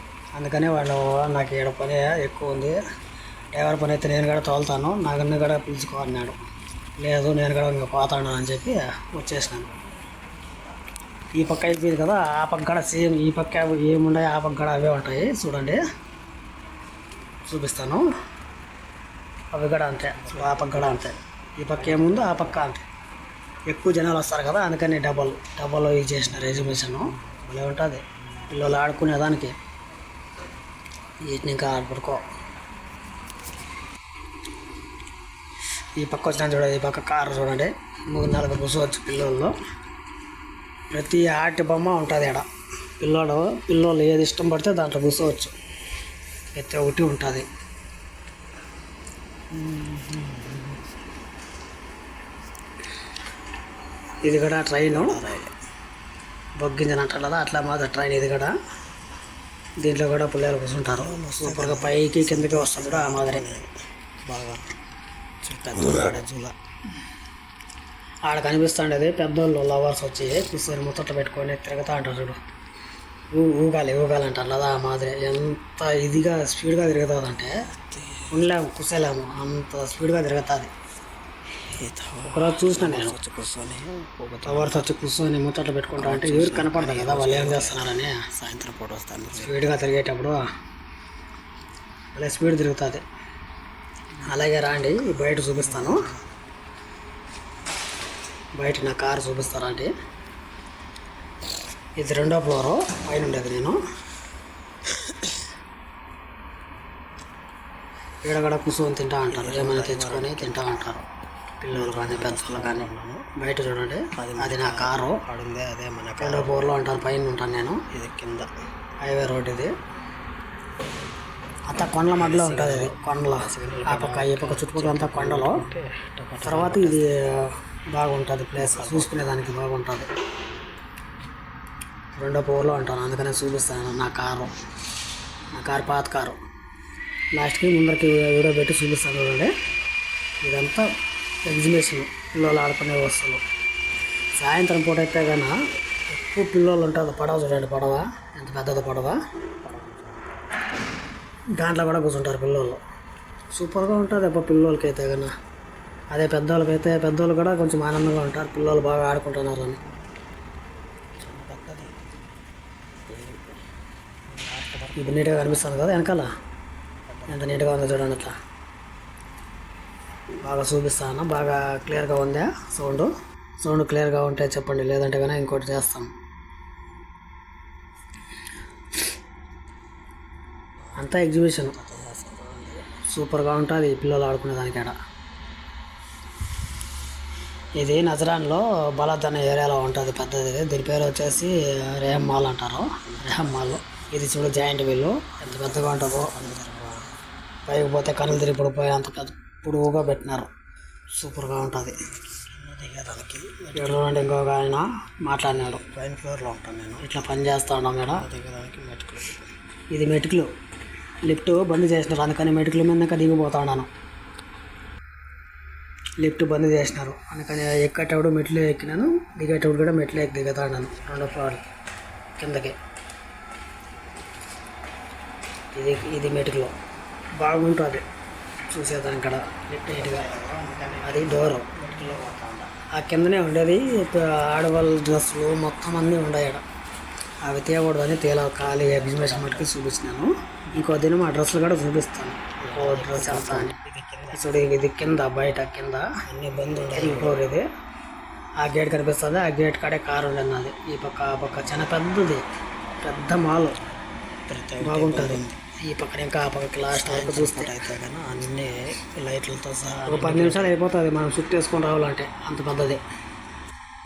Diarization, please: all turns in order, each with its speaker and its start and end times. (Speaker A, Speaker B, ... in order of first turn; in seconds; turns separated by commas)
Speaker A: 0.3-2.8, Speaker A: 3.5-6.4, Speaker A: 7.0-9.7, Speaker A: 11.3-15.8, Speaker A: 17.5-18.0, Speaker A: 19.5-22.8, Speaker B: 20.0-21.1, Speaker B: 21.8-22.6, Speaker A: 23.7-29.5, Speaker A: 31.3-32.2, Speaker A: 36.0-39.5, Speaker A: 40.9-42.5, Speaker A: 43.0-45.5, Speaker A: 46.6-47.5, Speaker B: 49.5-50.8, Speaker A: 54.2-55.2, Speaker B: 54.9-55.5, Speaker A: 56.6-58.5, Speaker A: 59.8-63.4, Speaker B: 60.8-63.7, Speaker B: 64.2-64.6, Speaker B: 65.4-66.5, Speaker A: 68.3-72.4, Speaker A: 73.3-77.7, Speaker B: 77.9-78.4, Speaker A: 78.3-80.7, Speaker B: 81.7-85.1, Speaker A: 82.2-83.2, Speaker A: 84.4-88.3, Speaker B: 86.0-89.6, Speaker A: 89.3-90.4, Speaker A: 92.1-93.0, Speaker A: 94.2-96.1, Speaker B: 95.6-96.2, Speaker A: 98.6-99.9, Speaker A: 102.0-103.8, Speaker A: 108.2-111.0, Speaker B: 109.3-110.9, Speaker A: 111.6-115.2, Speaker B: 111.7-113.3, Speaker B: 114.2-116.7, Speaker A: 116.2-117.8, Speaker B: 117.9-118.5, Speaker A: 119.0-119.7, Speaker A: 121.7-125.7, Speaker B: 122.2-127.0, Speaker A: 126.4-130.1, Speaker B: 128.5-129.4, Speaker A: 132.2-134.5, Speaker A: 135.5-136.4, Speaker A: 137.3-139.5, Speaker A: 140.4-140.8, Speaker A: 141.4-143.4, Speaker A: 144.4-145.6, Speaker A: 146.1-149.2, Speaker B: 149.6-150.9, Speaker A: 151.6-152.8, Speaker A: 153.5-155.3, Speaker A: 156.1-159.8, Speaker B: 161.2-162.1, Speaker B: 163.1-163.6, Speaker B: 164.3-165.9, Speaker A: 165.0-166.3, Speaker B: 167.1-168.2, Speaker A: 167.3-168.4, Speaker A: 170.4-176.1, Speaker A: 180.9-181.8, Speaker B: 181.7-182.8, Speaker A: 182.9-184.9, Speaker A: 187.8-196.3, Speaker B: 193.1-193.8, Speaker B: 195.5-197.1, Speaker A: 197.7-200.5, Speaker A: 201.1-202.0, Speaker B: 202.5-204.1, Speaker A: 203.7-205.8, Speaker B: 205.4-207.0, Speaker A: 207.0-208.2, Speaker B: 208.1-209.4, Speaker A: 209.9-210.5, Speaker A: 211.2-213.9, Speaker A: 216.2-221.7, Speaker A: 222.4-222.8, Speaker A: 225.8-226.7, Speaker A: 227.4-228.0, Speaker A: 228.7-230.3, Speaker B: 229.9-232.7, Speaker A: 231.0-231.7, Speaker A: 232.9-236.6, Speaker A: 237.4-243.8, Speaker B: 238.6-239.7, Speaker B: 242.6-244.6, Speaker A: 244.3-247.6, Speaker B: 246.3-247.4, Speaker A: 248.6-252.4, Speaker A: 253.0-253.8, Speaker B: 254.5-255.6, Speaker A: 254.8-257.8, Speaker B: 256.9-260.8, Speaker A: 260.1-263.0